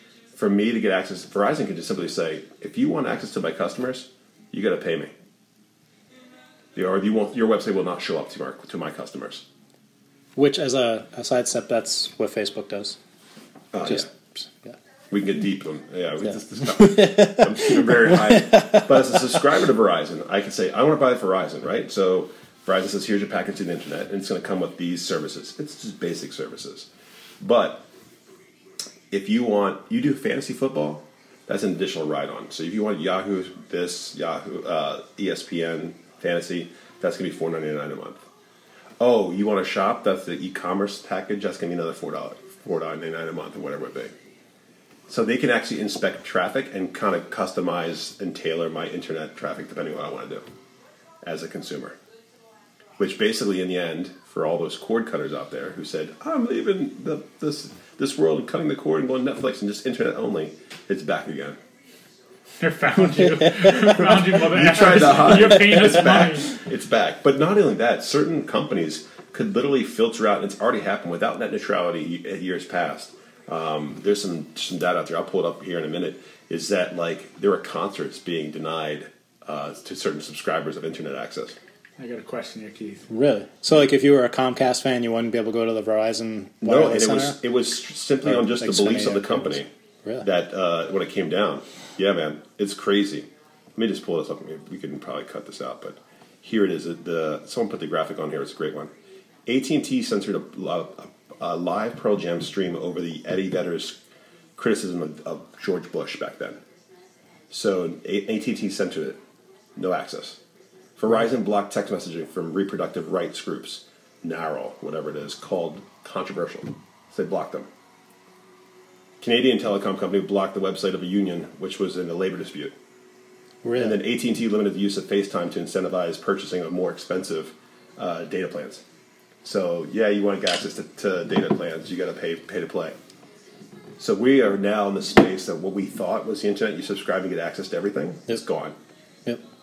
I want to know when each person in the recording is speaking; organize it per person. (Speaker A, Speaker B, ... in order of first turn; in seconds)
Speaker A: 0.3-5.1, 6.7-9.4, 13.7-14.1, 15.1-26.9, 27.4-27.9, 29.1-38.2, 39.0-44.1, 45.1-50.4, 51.2-52.0, 53.0-61.6, 64.0-81.6, 86.6-89.7, 90.2-98.9, 99.5-104.0, 104.5-106.6, 107.5-109.2, 109.8-110.4, 111.0-117.7, 119.2-122.7, 123.8-128.8, 129.4-132.9, 134.0-138.8
Speaker B: 10.3-13.0, 13.9-14.7, 16.8-18.8, 63.4-63.9, 83.1-87.4, 88.2-90.2, 123.6-124.0
Speaker C: 62.6-66.5, 82.0-83.0